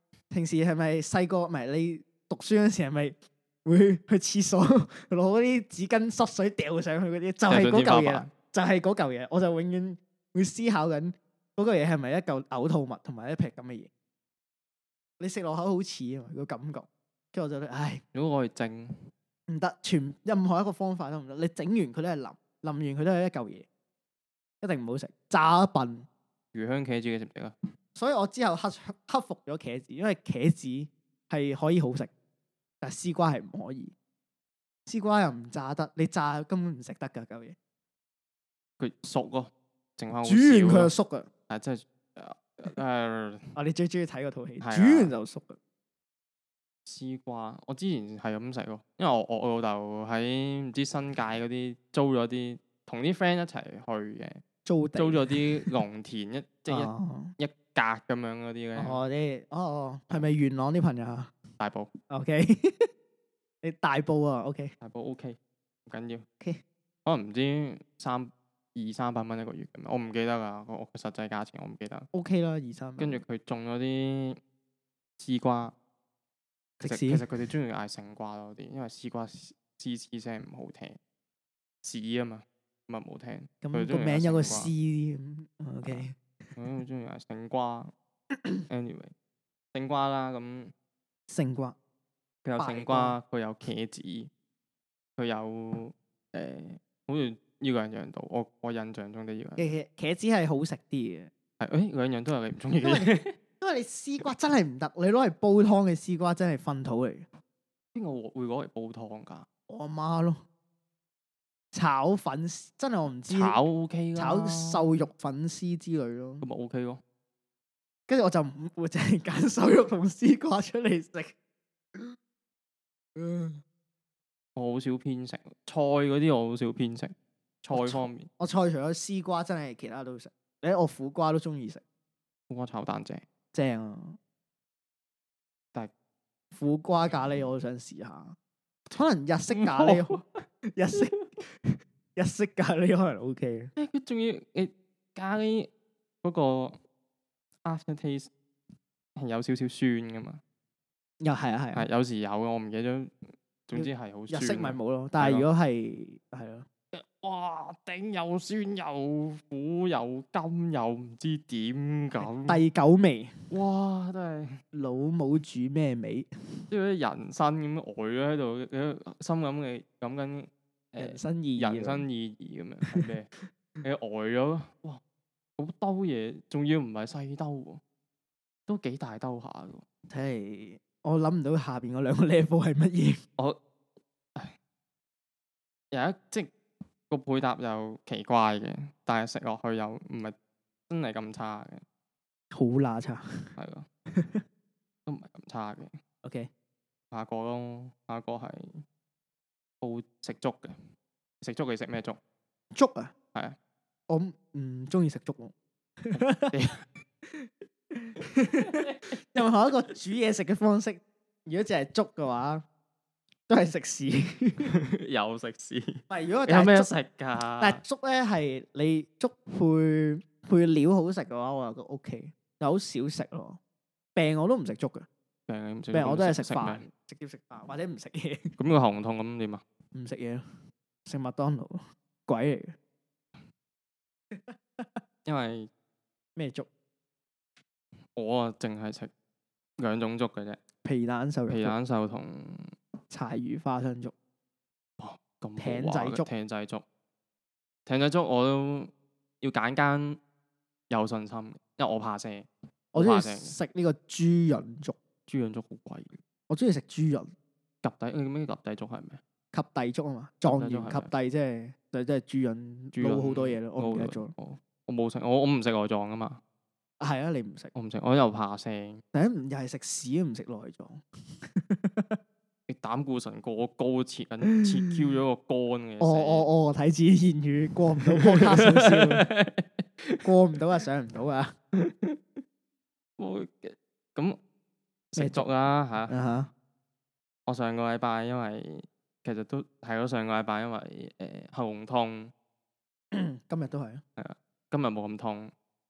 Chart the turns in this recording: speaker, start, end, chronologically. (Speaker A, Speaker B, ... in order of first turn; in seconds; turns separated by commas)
Speaker A: 0.3-13.9, Speaker B: 7.5-8.3, Speaker A: 15.2-18.0, Speaker B: 18.1-18.9, Speaker A: 19.5-23.7, Speaker A: 24.6-26.1, Speaker B: 26.5-27.6, Speaker A: 28.0-32.1, Speaker A: 32.8-33.9, Speaker A: 34.9-37.6, Speaker B: 38.8-40.9, Speaker A: 40.2-41.3, Speaker B: 41.5-43.5, Speaker A: 43.6-45.6, Speaker B: 44.6-45.1, Speaker B: 46.9-54.4, Speaker A: 54.6-55.7, Speaker B: 55.0-59.0, Speaker A: 56.7-57.4, Speaker A: 58.8-61.3, Speaker B: 61.6-61.9, Speaker A: 62.1-62.9, Speaker A: 63.6-64.7, Speaker B: 64.8-66.2, Speaker B: 67.1-72.1, Speaker A: 72.1-73.2, Speaker B: 73.0-74.4, Speaker B: 75.2-75.8, Speaker A: 76.8-77.3, Speaker B: 76.8-81.0, Speaker B: 81.8-84.7, Speaker A: 83.6-86.6, Speaker B: 85.8-87.9, Speaker A: 88.3-88.6, Speaker B: 88.7-89.1, Speaker B: 89.7-90.7, Speaker A: 91.3-91.8, Speaker B: 92.5-94.3, Speaker A: 92.6-93.2, Speaker B: 95.2-99.7, Speaker A: 99.6-101.3, Speaker B: 101.6-103.3, Speaker A: 102.8-107.3, Speaker B: 107.9-109.5, Speaker A: 109.7-110.4, Speaker A: 111.7-113.6, Speaker B: 113.3-115.0, Speaker A: 114.2-116.5, Speaker B: 116.4-117.0, Speaker A: 118.1-121.4, Speaker A: 123.2-123.6, Speaker B: 124.6-128.3, Speaker A: 127.7-131.8, Speaker B: 132.5-133.2, Speaker A: 133.5-134.2, Speaker A: 136.5-138.4, Speaker A: 138.9-140.2, Speaker B: 139.5-140.4, Speaker A: 140.7-143.7, Speaker B: 143.8-145.7, Speaker B: 146.2-146.8, Speaker B: 147.7-148.3, Speaker B: 149.2-150.4, Speaker A: 151.2-151.9, Speaker B: 151.7-153.2, Speaker B: 153.7-155.5, Speaker A: 153.7-156.7, Speaker B: 156.9-162.6, Speaker A: 162.2-163.5, Speaker B: 163.5-164.6, Speaker A: 164.7-166.6, Speaker B: 166.7-173.3, Speaker A: 171.0-172.1, Speaker A: 172.9-173.5, Speaker B: 173.8-175.0, Speaker B: 175.6-177.8, Speaker B: 178.7-179.8, Speaker A: 180.1-183.2, Speaker B: 185.9-186.5, Speaker B: 187.1-190.3, Speaker B: 190.9-191.8, Speaker A: 192.5-193.2, Speaker B: 193.6-193.9, Speaker A: 194.2-194.4, Speaker B: 195.1-196.0, Speaker A: 196.2-196.5, Speaker B: 197.1-198.8, Speaker B: 199.8-200.8, Speaker B: 201.4-202.2, Speaker A: 202.8-203.1, Speaker A: 204.1-206.5, Speaker B: 206.1-206.8, Speaker A: 207.3-212.6, Speaker A: 213.5-214.7, Speaker B: 214.7-217.8, Speaker A: 216.1-216.9, Speaker A: 217.6-223.6, Speaker A: 224.2-225.1, Speaker B: 225.5-226.9, Speaker A: 225.9-228.6, Speaker B: 228.6-229.6, Speaker A: 229.9-230.4, Speaker A: 231.1-232.8, Speaker A: 234.3-235.0, Speaker B: 235.2-235.7, Speaker A: 236.4-236.7, Speaker B: 238.2-239.1, Speaker B: 239.8-240.6, Speaker A: 240.8-241.8, Speaker B: 241.5-242.7, Speaker A: 243.1-244.1, Speaker B: 245.0-246.8, Speaker A: 245.6-246.3, Speaker B: 247.9-250.2, Speaker B: 250.9-253.6, Speaker A: 252.9-255.0, Speaker B: 255.3-256.2, Speaker A: 256.5-257.3, Speaker B: 257.8-259.2, Speaker A: 259.5-264.3, Speaker B: 260.5-261.1, Speaker B: 262.9-266.4, Speaker A: 267.0-267.7, Speaker B: 267.7-269.0, Speaker A: 269.1-271.0, Speaker A: 271.5-272.2, Speaker B: 272.7-276.5, Speaker A: 274.5-275.0, Speaker A: 276.0-279.2, Speaker B: 278.1-280.3, Speaker A: 280.2-281.6, Speaker B: 281.8-282.4, Speaker B: 283.2-284.4, Speaker B: 285.1-286.1, Speaker A: 285.2-285.5, Speaker A: 286.1-286.5, Speaker B: 287.5-292.3, Speaker A: 293.1-294.0, Speaker B: 294.2-295.5